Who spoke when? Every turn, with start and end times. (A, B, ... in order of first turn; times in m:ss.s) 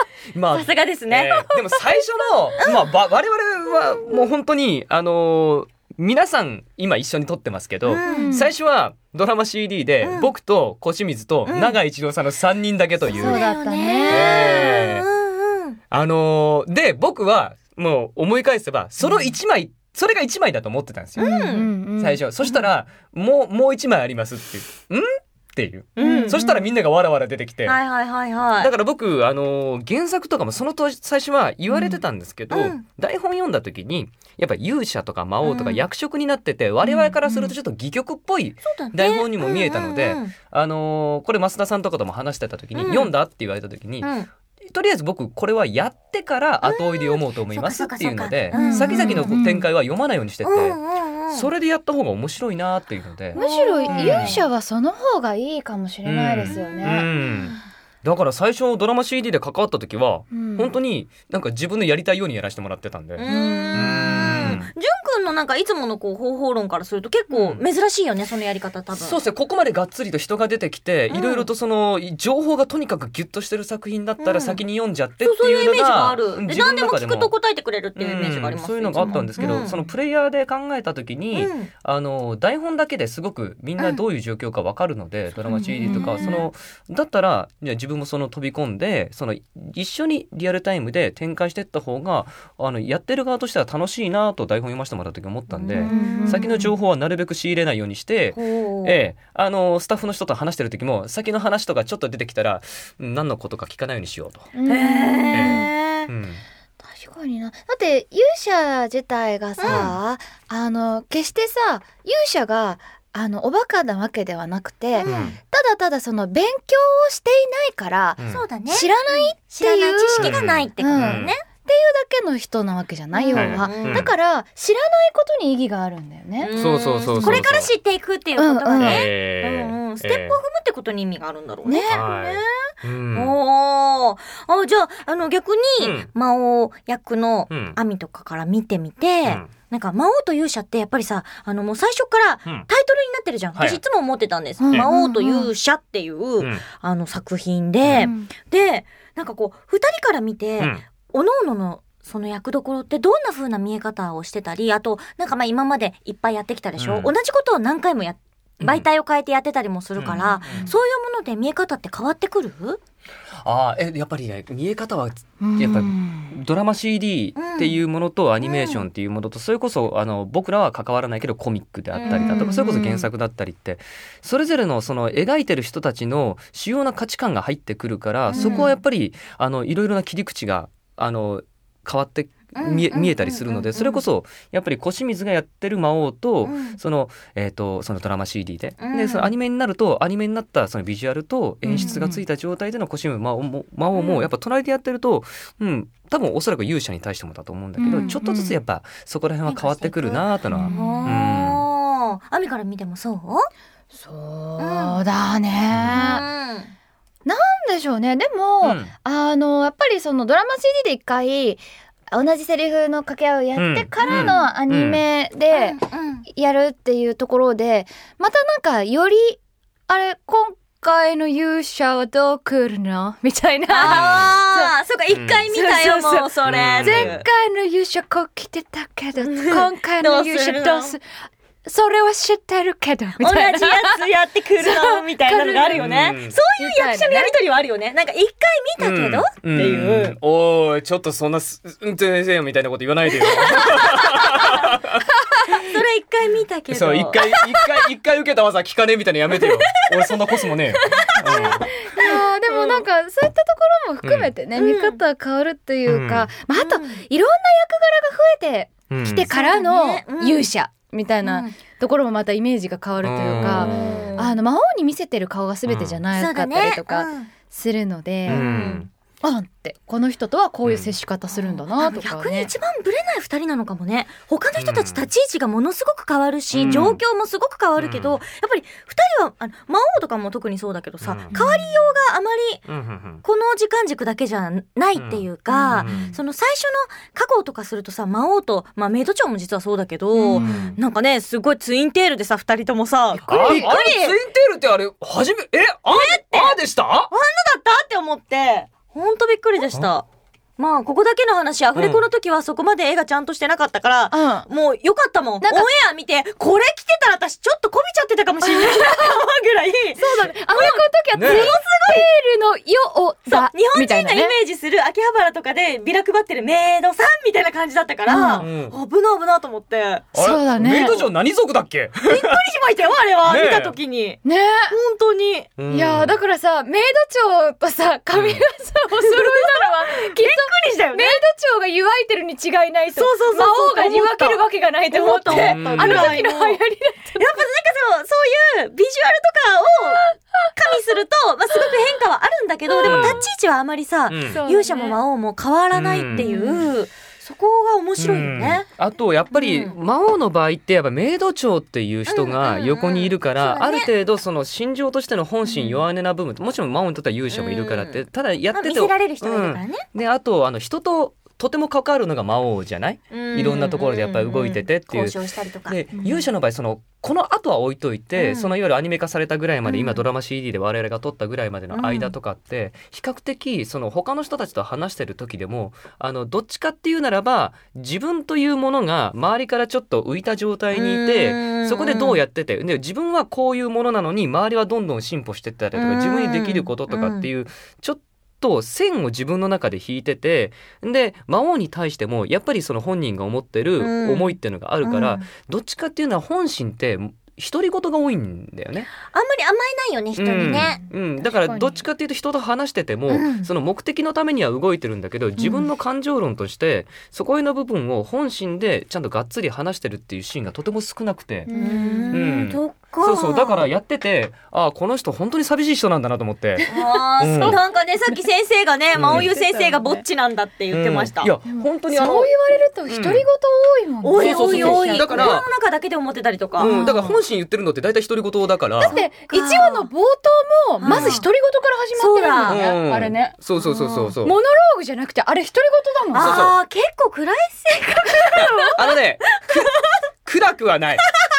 0:00.3-0:13.5 A
0:00.5-0:01.4 B
0:02.6-0:02.9 B
0:07.9-0:08.4 B
0:07.9-0:08.5 C
0:10.0-0:10.3 B
0:11.4-0:11.8 B
0:13.1-0:14.3 C
0:13.1-0:15.8 B
0:14.1-0:15.1 A
0:15.9-0:21.3 A
0:19.0-0:19.3 B
0:21.2-0:21.7 B
0:21.2-0:22.2 C
0:21.9-0:27.8 A
0:26.0-0:26.4 B
0:26.0-0:26.6 C
0:27.6-0:28.7 B
0:28.6-0:44.1 A
0:31.7-0:32.8 B
0:35.4-0:35.8 B
0:36.8-0:37.5 B
0:38.6-0:40.3 B
0:42.7-0:43.1 B
0:44.0-0:44.3 B
0:44.7-0:50.8 A
0:46.6-0:49.4 B
0:48.5-0:49.7 C
0:50.4-0:51.5 B
0:51.3-0:54.4 A
0:53.3-0:57.1 C
0:53.3-0:54.4 B
0:56.0-1:04.7 A
1:00.3-1:00.8 C
1:03.2-1:09.2 B
1:03.2-1:04.1 C
1:07.3-1:07.6 A
1:08.9-1:17.3 A
1:11.1-1:11.5 B
1:14.2-1:14.6 B
1:15.2-1:19.8 B
1:18.0-1:44.5 A
1:19.0-1:19.7 C
1:21.3-1:21.7 B
1:25.5-1:26.5 B
1:25.5-1:26.4 C
1:35.5-1:36.6 B
1:35.8-1:36.7 C
1:38.3-1:39.0 B
1:44.5-1:45.7 C
1:44.6-1:46.1 B
1:45.3-1:46.4 A
1:46.9-2:06.6 C
1:49.6-1:49.9 B
1:49.6-1:50.0 A
1:55.0-1:55.3 B
1:55.0-1:55.4 A
1:58.2-1:58.4 A
1:58.3-2:01.4 B
2:00.2-2:01.3 A
2:03.1-2:04.1 B
2:03.3-2:04.1 A
2:06.4-2:42.8 B
2:06.5-2:07.7 A
2:07.1-2:07.5 C
2:08.4-2:09.1 C
2:08.8-2:10.4 A
2:11.6-2:12.1 C
2:11.9-2:13.3 A
2:15.8-2:16.1 A
2:17.5-2:17.8 A
2:19.2-2:19.5 A
2:24.6-2:25.5 C
2:27.8-2:28.1 A
2:28.0-2:28.3 C
2:36.8-2:37.1 A
2:38.6-2:38.8 A
2:40.0-2:40.7 A
2:43.4-3:21.6 A
2:45.4-2:46.3 C
2:47.4-2:47.8 B
2:48.4-2:48.8 B
2:51.9-2:52.6 B
2:52.0-2:53.1 C
2:58.3-2:58.8 B
2:58.3-2:58.7 C
3:02.5-3:04.0 B
3:06.4-3:06.8 B
3:08.8-3:09.3 B
3:11.6-3:12.2 C
3:11.8-3:12.0 B
3:13.9-3:14.2 B
3:17.8-3:18.6 C
3:19.4-3:23.5 B
3:20.5-3:21.2 C
3:23.9-3:26.2 C
3:24.6-3:25.0 B
3:25.7-3:26.0 A
3:25.8-3:26.7 B
3:27.2-3:35.8 C
3:28.6-3:28.9 A
3:33.5-3:35.0 A
3:34.0-3:34.4 B
3:35.5-3:36.2 B
3:36.3-3:44.7 C
3:43.7-3:47.2 B
3:43.8-3:44.4 A
3:45.1-3:45.4 A
3:45.5-3:46.3 C
3:46.4-3:47.2 A
3:46.8-3:51.0 C
3:49.2-3:51.0 B
3:51.6-3:54.0 C
3:53.2-4:00.2 B
3:54.6-3:55.8 C
3:55.7-3:56.4 A
3:56.6-3:57.3 C
3:58.8-4:05.1 A
4:03.6-4:04.7 B
4:05.4-4:07.6 B
4:06.7-4:11.7 A
4:10.9-4:12.8 B
4:11.1-4:28.4 C
4:14.0-4:14.3 A
4:14.6-4:15.0 B
4:15.8-4:16.3 A
4:16.5-4:17.0 B
4:18.9-4:19.3 A
4:19.3-4:20.5 B
4:21.2-4:21.5 B
4:23.0-4:24.0 A
4:23.5-4:24.3 B
4:25.7-4:26.0 A
4:26.1-4:27.3 B
4:28.2-4:28.9 A
4:28.3-4:28.8 B
4:29.2-4:32.5 C
4:30.6-4:30.9 A
4:31.3-4:42.6 B
4:34.6-4:35.0 A
4:36.5-4:37.0 A
4:37.8-4:38.2 A
4:41.0-4:41.4 A
4:41.3-4:41.6 C
4:42.7-4:43.2 A
4:43.2-4:54.2 B
4:44.9-4:46.2 A
4:45.5-4:46.2 C
4:50.2-4:50.8 C
4:50.3-4:50.8 A
4:53.2-4:57.1 A
4:53.3-4:53.7 C
4:55.9-4:56.6 B
4:57.1-5:00.0 B
5:00.6-5:12.0 B
5:01.7-5:02.0 A
5:04.1-5:04.5 C
5:05.4-5:05.7 C
5:08.4-5:09.0 C
5:10.0-5:14.3 C
5:11.1-5:11.6 A
5:13.3-5:20.1 B
5:18.1-5:18.5 C
5:18.4-5:18.7 A
5:20.1-5:22.4 A
5:20.1-5:21.0 C
5:22.1-5:25.5 B
5:23.2-5:23.8 A
5:24.2-5:24.7 C
5:25.6-5:26.2 A
5:25.7-5:37.4 C
5:28.1-5:28.4 A
5:29.0-5:31.2 B
5:32.9-5:36.6 B
5:35.3-5:36.2 A
5:37.2-5:48.7 B
5:42.7-5:43.2 C
5:42.8-5:43.2 A
5:44.1-5:44.4 A
5:44.3-5:45.0 C
5:45.7-5:46.6 A
5:46.2-5:46.6 C
5:48.0-6:38.9 A
5:49.3-5:49.8 B
5:52.1-5:53.9 B
5:55.4-5:55.8 B
5:57.3-5:58.0 B
5:58.5-5:59.9 B
6:03.1-6:05.8 B
6:08.2-6:08.5 B
6:09.6-6:10.0 B
6:11.7-6:12.1 B
6:20.7-6:22.2 B
6:25.7-6:27.3 B
6:33.8-6:35.3 B
6:39.0-6:40.8 B
6:40.2-6:51.5 A
6:41.2-6:41.8 C
6:43.1-6:43.5 B
6:45.4-6:45.7 B
6:51.4-6:52.3 C
6:51.5-6:53.6 B
6:52.1-6:57.6 A
6:56.6-6:57.6 C
6:56.7-7:01.3 B
6:58.9-6:59.4 A
6:59.1-7:00.0 C
7:00.7-7:02.3 A
7:01.5-7:05.4 C
7:02.9-7:03.2 A
7:04.0-7:06.9 B
7:04.1-7:05.5 A
7:06.6-7:09.0 A
7:06.6-7:07.2 C
7:08.8-7:09.9 B
7:08.8-7:13.4 C
7:10.8-7:11.2 B
7:10.9-7:11.2 A
7:12.0-7:12.7 B
7:12.4-7:14.4 A
7:13.6-7:14.1 B
7:14.2-7:16.4 C
7:16.1-7:20.0 B
7:16.2-7:16.6 A
7:18.3-7:21.0 A